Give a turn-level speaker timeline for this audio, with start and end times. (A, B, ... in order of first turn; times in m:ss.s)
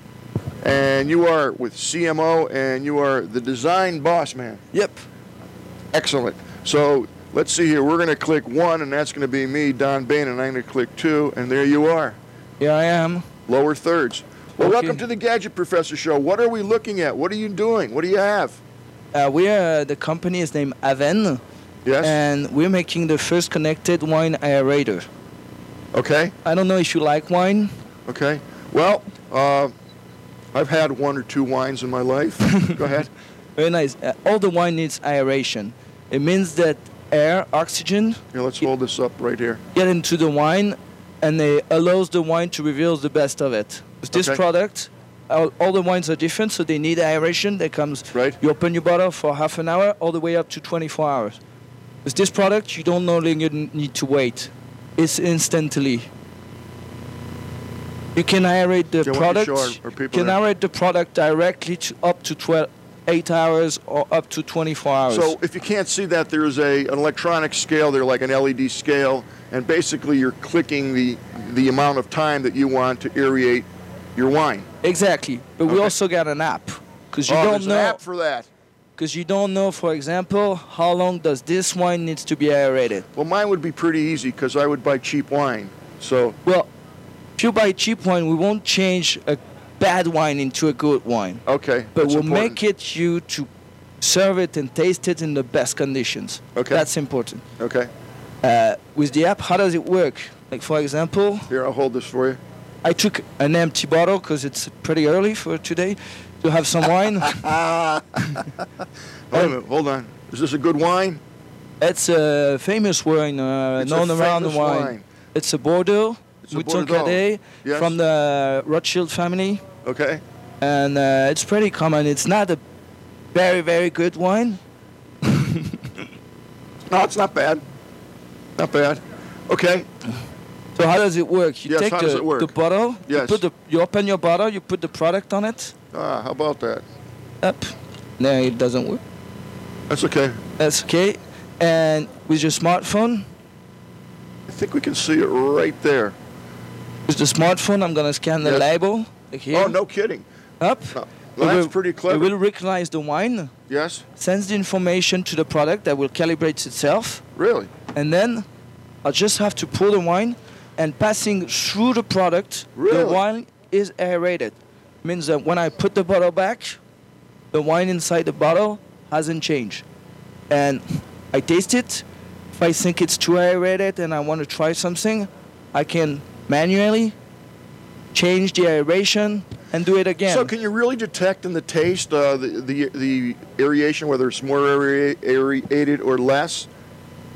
0:00.6-0:04.6 A
0:04.7-0:05.0 B
0:05.9-0:12.2 A
0:12.6-0:13.3 B
0:13.5-0:18.6 A
0:14.6-0:15.0 B
0:19.1-0:21.4 B
0:21.8-0:22.2 A
0:22.0-0:25.1 B
0:25.9-0:26.4 A
0:26.4-0:27.7 B
0:28.1-0:29.7 A
0:30.5-0:33.1 A
0:33.6-0:38.2 B
0:38.3-0:39.6 A
0:39.7-0:51.4 B
0:44.1-0:44.4 A
0:52.0-0:56.1 B
0:58.2-1:05.4 B
0:59.0-1:00.4 A
1:05.1-1:14.7 A
1:14.8-1:18.0 B
1:15.7-1:15.9 A
1:17.3-1:18.5 A
1:19.0-1:23.1 B
1:23.2-1:26.4 A
1:26.4-1:26.7 B
1:27.4-1:31.4 B
1:31.5-1:32.6 A
1:32.0-1:33.5 B
1:34.0-1:37.4 B
1:36.6-1:36.9 A
1:37.6-1:37.9 A
1:38.4-1:41.5 B
1:41.5-1:42.4 A
1:42.8-1:47.6 B
1:47.3-1:48.4 A
1:49.3-1:51.2 A
1:51.8-1:59.6 B
1:53.8-1:55.0 A
1:56.4-1:58.0 A
1:59.8-2:00.2 A
2:00.6-2:02.6 B
2:03.3-2:04.6 B
2:05.2-2:05.9 B
2:06.9-2:07.6 A
2:08.6-2:09.9 A
2:10.8-2:15.7 B
2:11.7-2:12.5 A
2:13.1-2:13.4 A
2:15.9-2:16.8 A
2:17.4-2:19.0 B
2:19.9-2:20.4 A
2:20.6-2:23.3 B
2:24.5-2:26.2 A
2:27.1-2:29.8 B
2:28.4-2:28.7 A
2:29.5-2:30.2 A
2:30.6-2:33.5 B
2:30.9-2:32.3 A
2:33.7-2:34.0 A
2:34.2-2:37.2 B
2:37.4-2:37.7 A
2:37.9-2:38.4 B
2:39.0-2:46.8 B
2:42.8-2:43.2 A
2:47.5-2:49.8 B
2:50.5-2:57.1 B
2:58.1-3:00.5 B
3:00.3-3:06.7 A